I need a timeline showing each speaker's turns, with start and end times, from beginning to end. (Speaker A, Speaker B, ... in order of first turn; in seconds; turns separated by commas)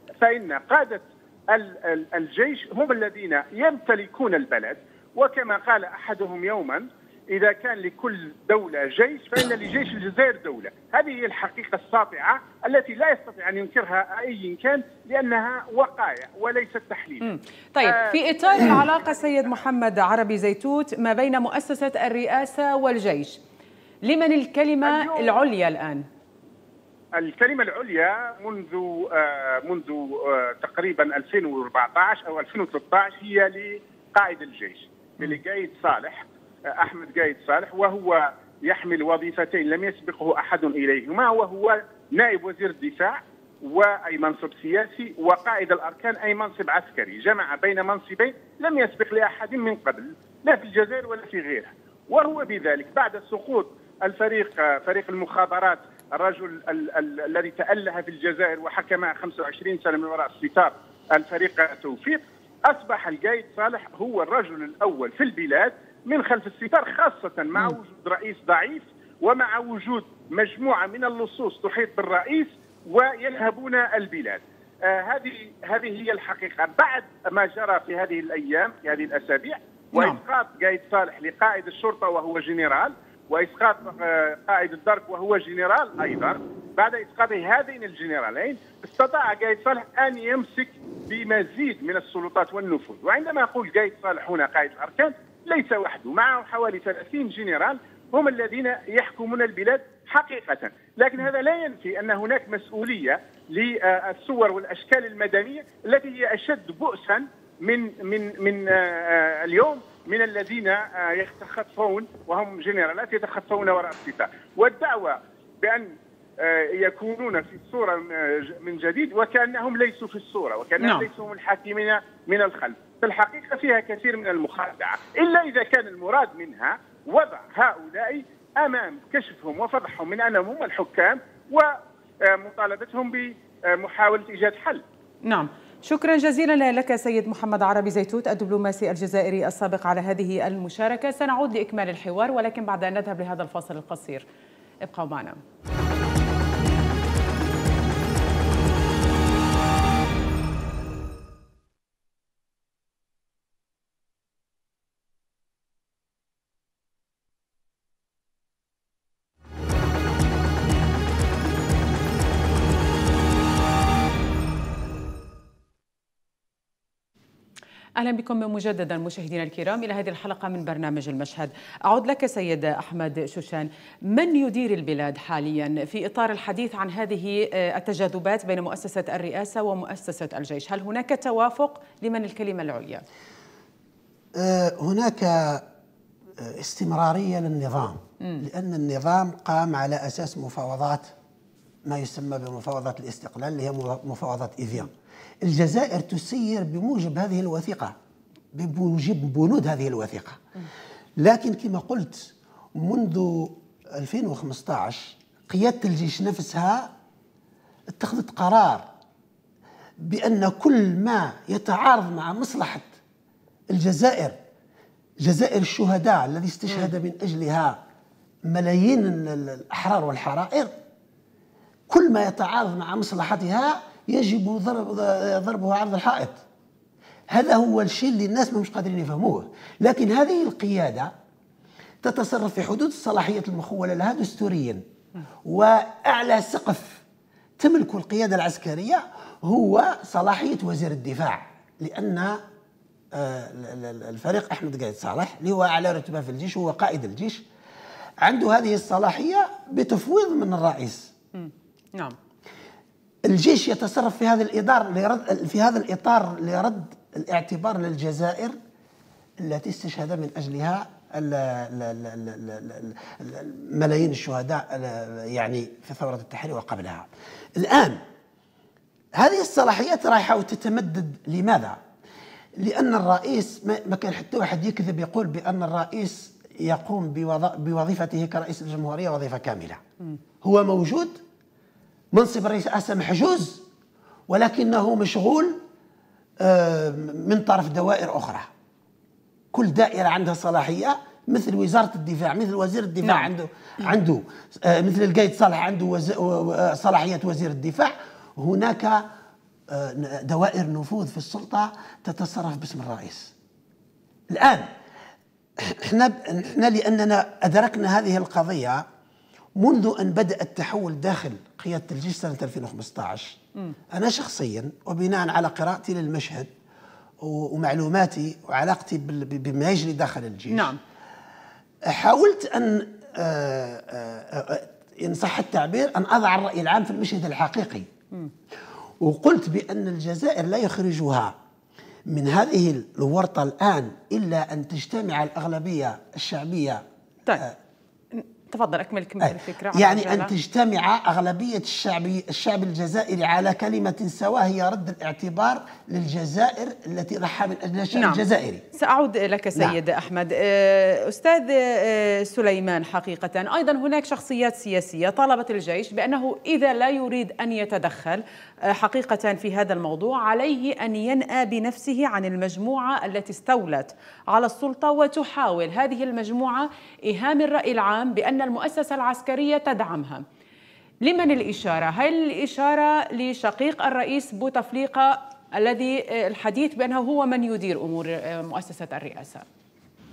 Speaker A: 0.2-17.3, Speaker B: 17.2-23.4, Speaker A: 17.8-19.5, Speaker B: 24.1-26.1, Speaker A: 24.9-25.4, Speaker A: 27.2-36.2, Speaker A: 36.8-131.7, Speaker B: 80.0-80.2, Speaker B: 120.8-121.1, Speaker A: 132.3-134.8, Speaker B: 135.3-144.2, Speaker B: 144.8-145.4, Speaker B: 168.0-183.0, Speaker C: 184.3-185.6, Speaker C: 186.4-191.1, Speaker C: 191.9-194.9, Speaker C: 195.4-197.9, Speaker C: 198.5-200.4, Speaker C: 201.2-206.9, Speaker C: 207.9-208.8, Speaker C: 210.0-212.9, Speaker C: 213.7-214.4, Speaker C: 215.2-217.8, Speaker C: 218.5-220.7, Speaker C: 221.9-226.4, Speaker C: 227.3-231.1, Speaker C: 232.0-234.8, Speaker C: 235.4-237.0, Speaker C: 237.6-242.4, Speaker C: 243.1-247.4, Speaker C: 248.2-251.1, Speaker B: 251.3-252.2, Speaker C: 253.2-258.6, Speaker C: 259.4-268.0, Speaker C: 269.2-271.8, Speaker C: 272.6-279.8, Speaker C: 280.4-281.2, Speaker C: 282.1-283.6, Speaker C: 284.3-285.6, Speaker C: 286.4-288.5, Speaker C: 289.5-299.0, Speaker C: 299.7-303.3, Speaker C: 304.3-304.7, Speaker C: 305.6-308.8, Speaker C: 309.6-313.4, Speaker C: 313.9-316.5, Speaker C: 317.2-320.7, Speaker B: 320.5-320.8, Speaker C: 321.9-327.9, Speaker C: 329.0-331.4, Speaker C: 332.1-336.8, Speaker B: 338.1-340.3, Speaker C: 339.2-348.6, Speaker B: 347.9-348.2, Speaker B: 348.7-370.2, Speaker B: 371.0-379.4